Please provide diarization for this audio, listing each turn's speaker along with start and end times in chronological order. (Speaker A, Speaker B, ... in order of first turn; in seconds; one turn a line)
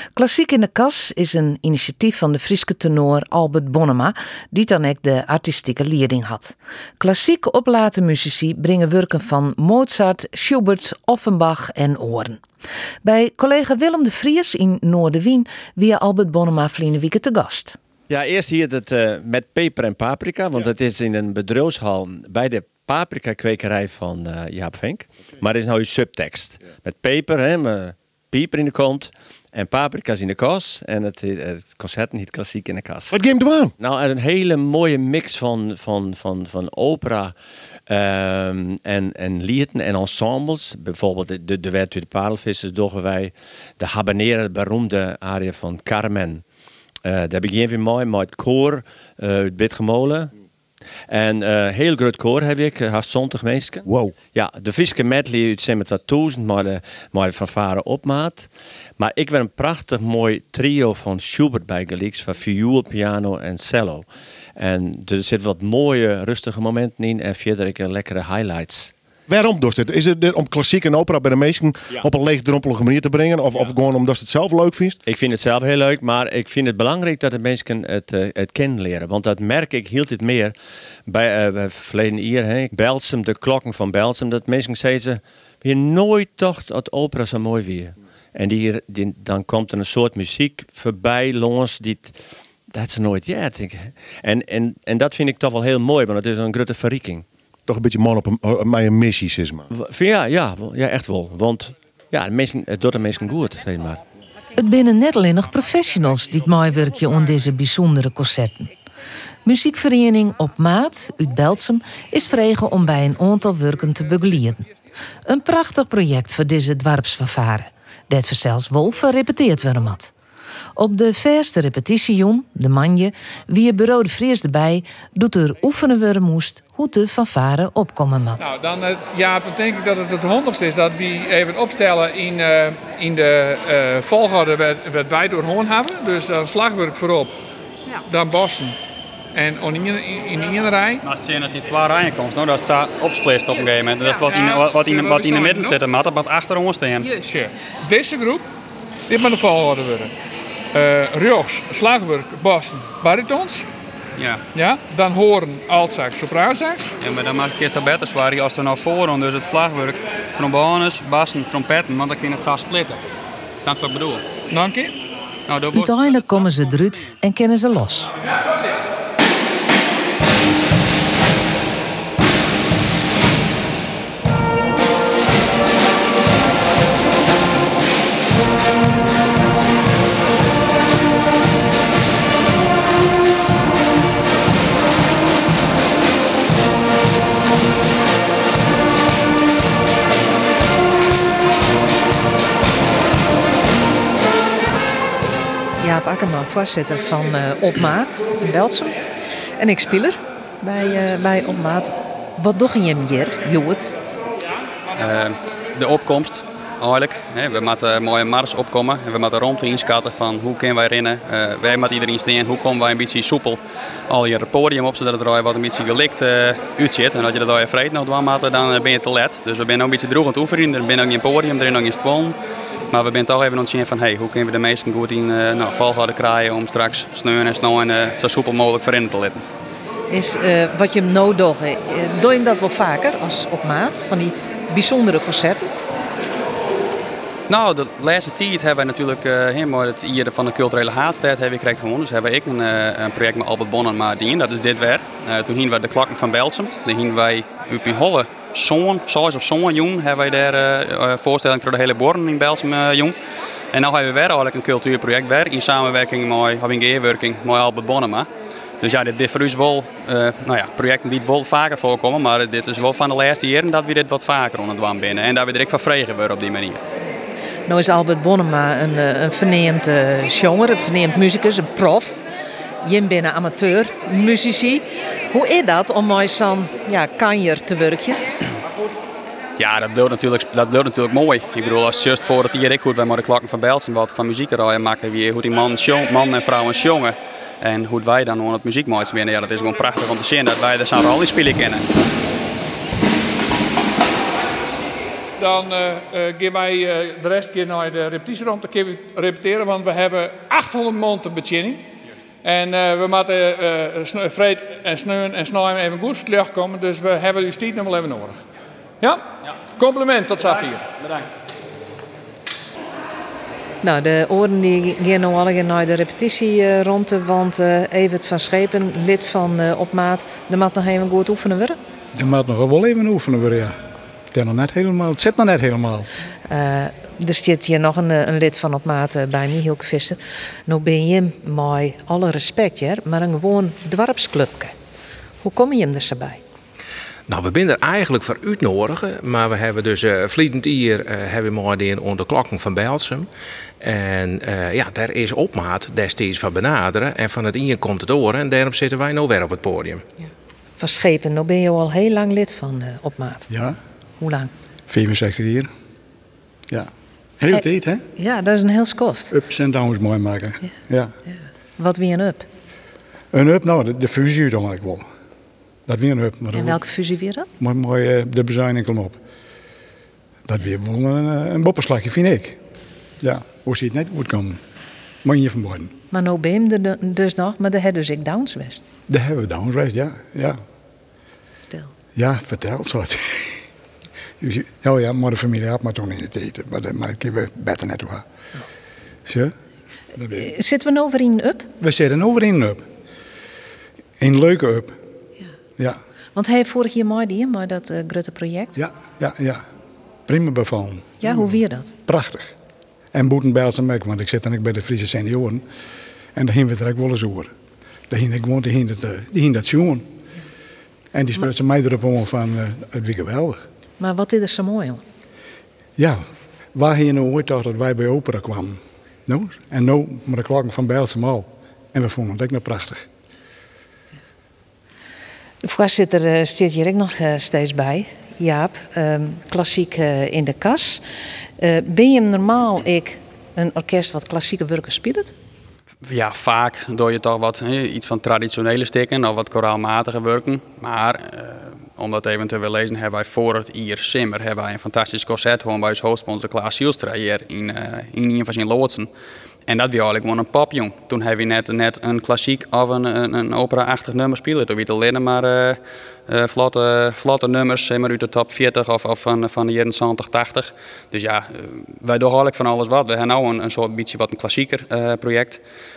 Speaker A: 0.1-12.4
Speaker A: 13.0-17.8
Speaker B: 18.1-33.1
Speaker C: 33.1-33.7
Speaker B: 33.8-37.3
Speaker B: 37.9-46.4
Speaker B: 47.0-50.3
Speaker B: 51.1-64.1
Speaker C: 53.8-54.2
Speaker B: 64.6-68.9
Speaker C: 69.3-75.0
Speaker B: 75.0-80.5
Speaker B: 81.1-92.1
Speaker B: 92.7-97.2
Speaker C: 97.7-99.7
Speaker B: 99.8-104.0
Speaker A: 104.5-108.7
Speaker A: 109.4-114.7
Speaker A: 115.2-120.1
Speaker A: 120.8-128.5
Speaker D: 128.4-137.3
Speaker D: 137.9-138.8
Speaker D: 139.3-141.0
Speaker E: 141.0-147.1
Speaker D: 144.2-145.8
Speaker D: 147.2-148.4
Speaker D: 149.1-150.1
Speaker D: 150.7-153.7
Speaker E: 154.2-154.4
Speaker D: 154.5-157.0
Speaker E: 157.0-163.0
Speaker E: 163.6-164.2
Speaker D: 164.5-164.9
Speaker E: 165.5-166.1
Speaker A: 165.7-168.1
Speaker A: 195.8-199.0
Speaker A: 199.6-204.0
Speaker E: 204.9-222.4
Speaker E: 222.9-229.4
Speaker A: 230.1-235.7
Speaker E: 237.5-253.2
Speaker E: 253.7-258.3
Speaker E: 258.8-266.8
Speaker A: 267.7-272.2
Speaker A: 272.8-278.2
Speaker E: 279.6-291.9
Speaker D: 295.4-301.8
Speaker D: 302.4-308.4
Speaker D: 309.0-310.9
Speaker A: 313.8-321.8
Speaker F: 322.1-323.7
Speaker F: 324.3-326.1
Speaker A: 326.5-334.7
Speaker A: 335.4-336.4
Speaker G: 337.3-343.3
Speaker G: 343.8-350.1
Speaker A: 350.8-353.5
Speaker F: 353.5-353.8
Speaker A: 354.2-354.5
Speaker F: 354.9-355.7
Speaker F: 357.4-358.0
Speaker A: 358.1-359.3
Speaker F: 359.3-361.1
Speaker A: 361.8-362.4
Speaker F: 363.3-365.0
Speaker F: 365.9-366.8
Speaker A: 366.5-367.5
Speaker F: 367.6-369.2
Speaker F: 370.5-372.6
Speaker F: 373.2-374.6
Speaker F: 375.2-375.9
Speaker A: 376.1-378.8
Speaker F: 379.1-380.6
Speaker F: 382.1-383.6
Speaker F: 384.4-388.2
Speaker F: 389.2-389.5
Speaker F: 390.1-390.5
Speaker A: 390.3-391.7
Speaker F: 391.8-392.8
Speaker F: 394.2-394.9
Speaker A: 396.3-398.8
Speaker F: 398.8-399.6
Speaker F: 400.3-401.4
Speaker A: 401.2-401.9
Speaker F: 402.1-402.5
Speaker F: 403.1-405.6
Speaker F: 406.4-407.5
Speaker F: 408.1-410.1
Speaker F: 411.1-413.6
Speaker A: 414.0-415.0
Speaker F: 416.0-416.2
Speaker F: 416.7-423.0
Speaker A: 425.6-431.0
Speaker A: 431.6-435.3
Speaker E: 436.0-449.1
Speaker E: 449.7-465.6